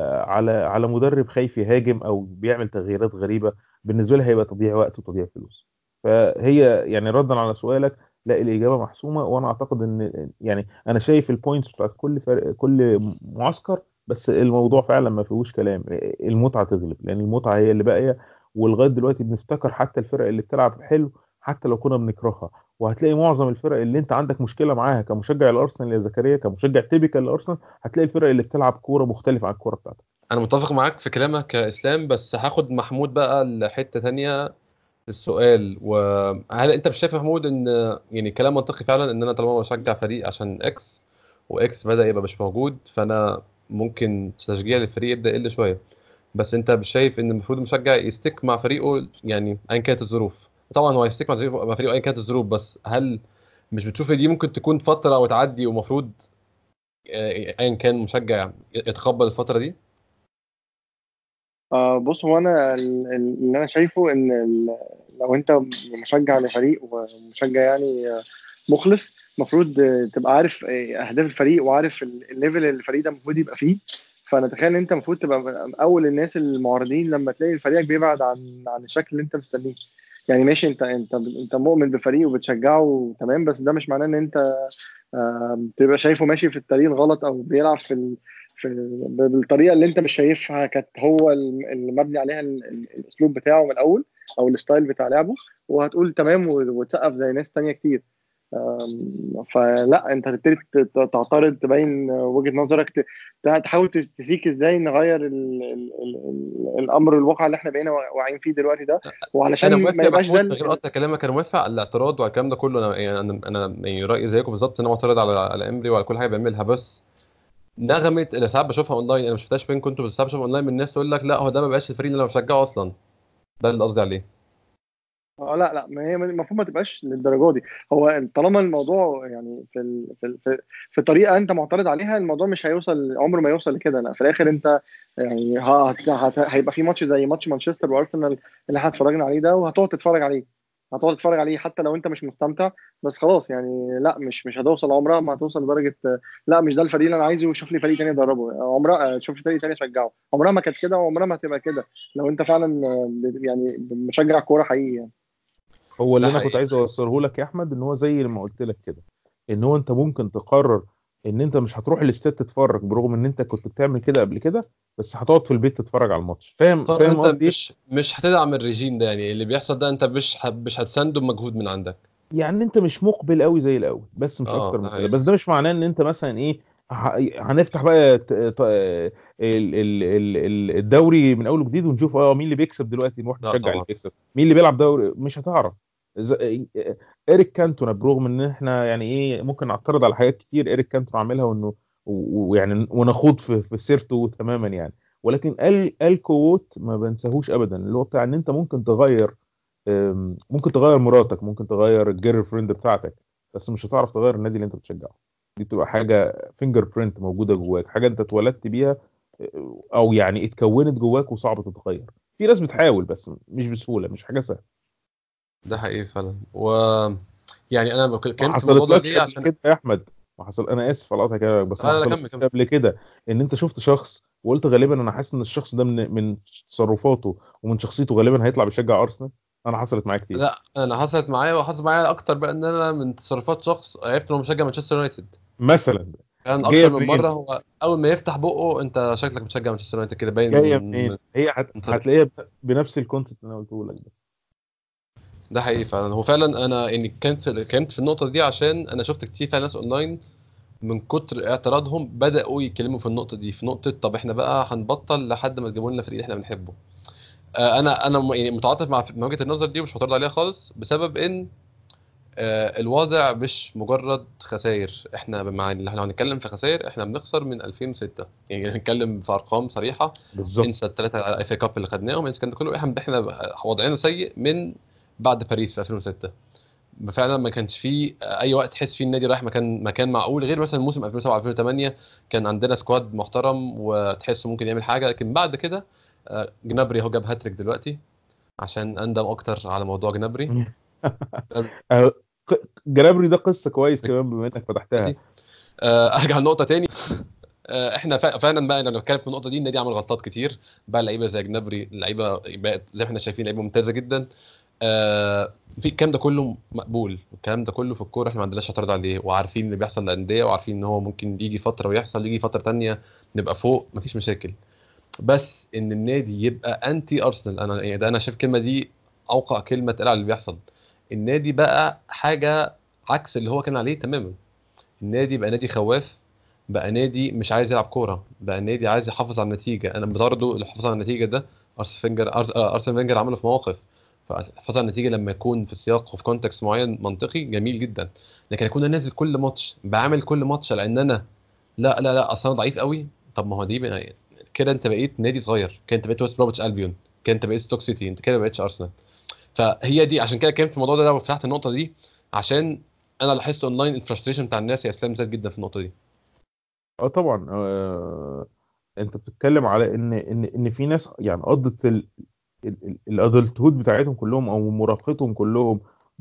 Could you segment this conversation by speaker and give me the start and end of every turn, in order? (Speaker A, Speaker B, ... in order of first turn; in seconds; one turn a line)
Speaker A: 0.3-30.0
Speaker B: 30.3-34.5
Speaker B: 35.1-41.0
Speaker B: 41.5-45.8
Speaker B: 46.3-53.2
Speaker B: 53.7-56.1
Speaker B: 57.1-59.7
Speaker C: 61.7-98.0
Speaker C: 98.5-110.8
Speaker B: 109.6-117.0
Speaker B: 117.8-122.9
Speaker B: 123.6-124.2
Speaker C: 125.4-155.1
Speaker A: 156.0-167.6
Speaker B: 156.2-156.6
Speaker B: 166.9-172.0
Speaker A: 172.3-199.3
Speaker B: 174.5-175.2
Speaker B: 183.4-183.8
Speaker A: 199.9-214.6
Speaker B: 215.7-217.2
Speaker B: 217.7-219.5
Speaker A: 218.4-230.4
Speaker B: 221.8-222.4
Speaker B: 230.3-235.3
Speaker A: 235.6-237.3
Speaker B: 236.4-241.2
Speaker A: 240.5-244.1
Speaker B: 241.7-242.0
Speaker B: 245.5-250.2
Speaker B: 250.8-256.7
Speaker B: 257.6-261.5
Speaker B: 262.4-276.3
Speaker A: 270.3-270.7
Speaker B: 277.0-288.0
Speaker B: 288.6-290.6
Speaker A: 290.5-295.1
Speaker B: 295.8-304.2
Speaker B: 304.8-314.5
Speaker B: 315.2-320.6
Speaker B: 321.1-324.4
Speaker B: 325.0-326.1
Speaker B: 326.7-341.2
Speaker B: 341.8-348.9
Speaker B: 349.5-355.9
Speaker A: 357.0-358.5
Speaker A: 359.0-362.1
Speaker A: 362.6-365.8